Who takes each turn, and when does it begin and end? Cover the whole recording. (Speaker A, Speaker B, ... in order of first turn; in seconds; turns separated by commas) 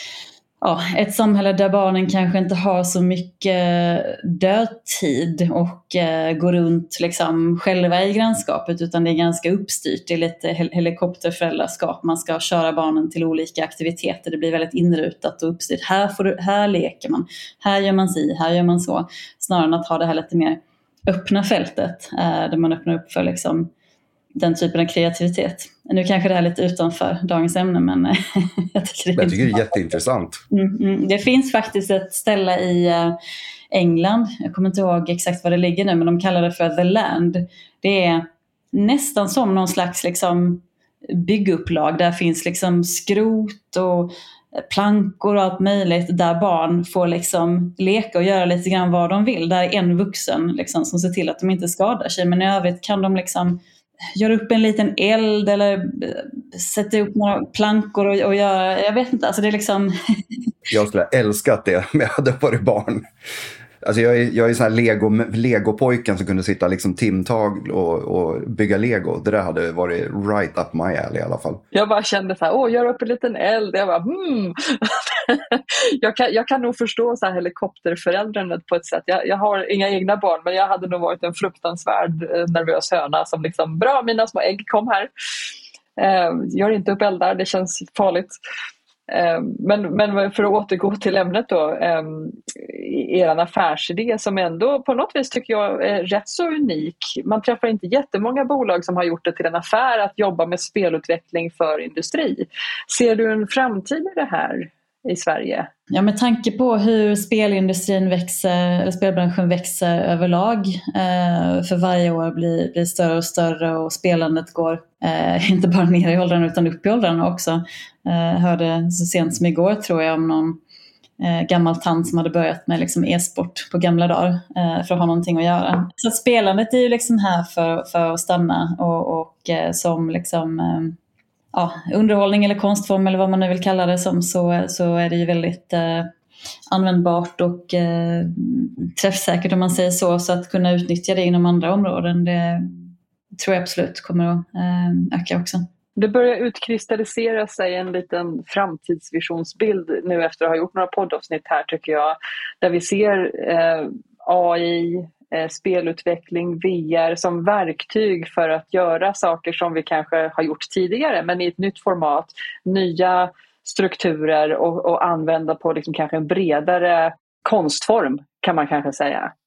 Speaker A: 0.6-23.7, Speaker A: 24.4-29.8, Speaker B: 29.1-30.4, Speaker A: 30.5-33.1, Speaker A: 33.7-53.6, Speaker A: 54.2-59.9, Speaker B: 60.7-63.0, Speaker B: 63.8-71.6, Speaker C: 71.7-85.1, Speaker C: 86.0-88.3, Speaker C: 89.1-105.7, Speaker A: 105.9-120.6, Speaker A: 121.2-130.9, Speaker A: 131.5-136.1, Speaker A: 136.7-145.7, Speaker C: 146.0-169.3